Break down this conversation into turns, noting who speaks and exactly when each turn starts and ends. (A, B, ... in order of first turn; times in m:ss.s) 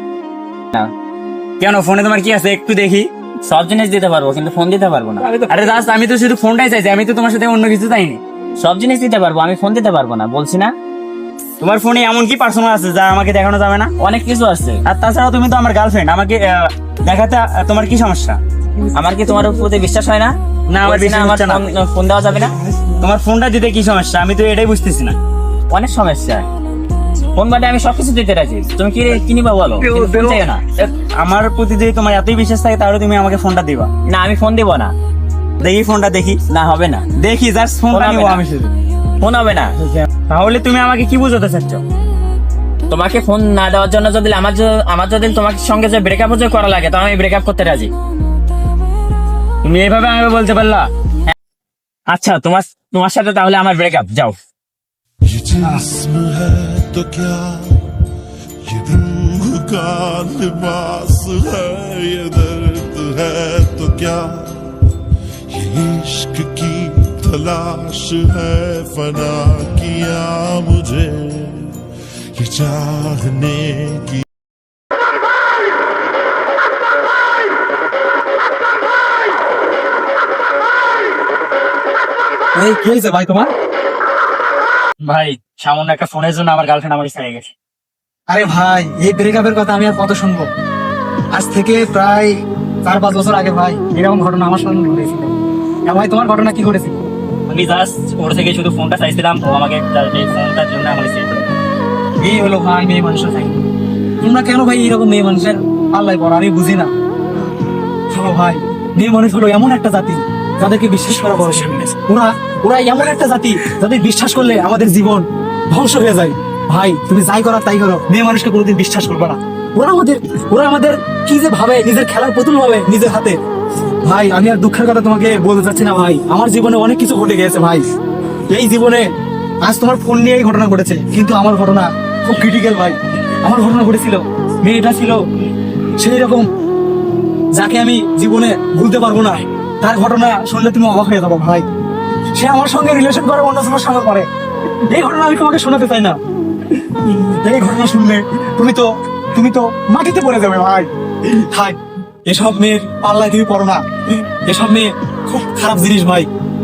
0:01.6-0:03.1 A
0:03.4-0:05.3 B
0:05.2-0:08.2 A
0:08.6-0:10.7 B
0:11.6-0:13.9 A
0:14.0-0:14.8 B
0:14.8-0:18.4 A
0:18.9-0:22.6 B
0:20.7-0:21.6 A
0:22.8-0:25.2 A
0:25.7-0:26.4 B
0:27.4-0:30.6 B
0:29.8-0:33.9 A
0:34.1-0:34.9 B
0:35.6-0:36.4 A
0:36.5-0:37.1 B
0:37.2-0:38.7 A
0:37.9-0:38.4 B
0:39.2-0:39.7 B
0:39.8-0:41.8 A
0:42.9-0:47.9 B
0:49.6-0:50.9 A
0:52.1-0:54.3 B
0:55.3-0:57.8 C
0:58.6-1:05.0 C
1:05.5-1:14.2 C
1:22.5-1:23.5 D
1:25.0-1:27.5 A
1:28.3-1:30.4 D
1:31.3-1:35.3 D
1:35.9-1:37.0 D
1:37.5-1:41.6 A
1:42.2-1:43.6 D
1:44.2-1:46.9 D
1:48.1-2:03.4 D
2:04.0-2:07.8 D
2:08.5-2:09.1 D
2:09.6-2:15.2 D
2:16.0-2:16.4 D
2:17.5-2:21.7 D
2:22.3-2:24.3 D
2:24.9-2:26.2 D
2:26.8-2:36.3 D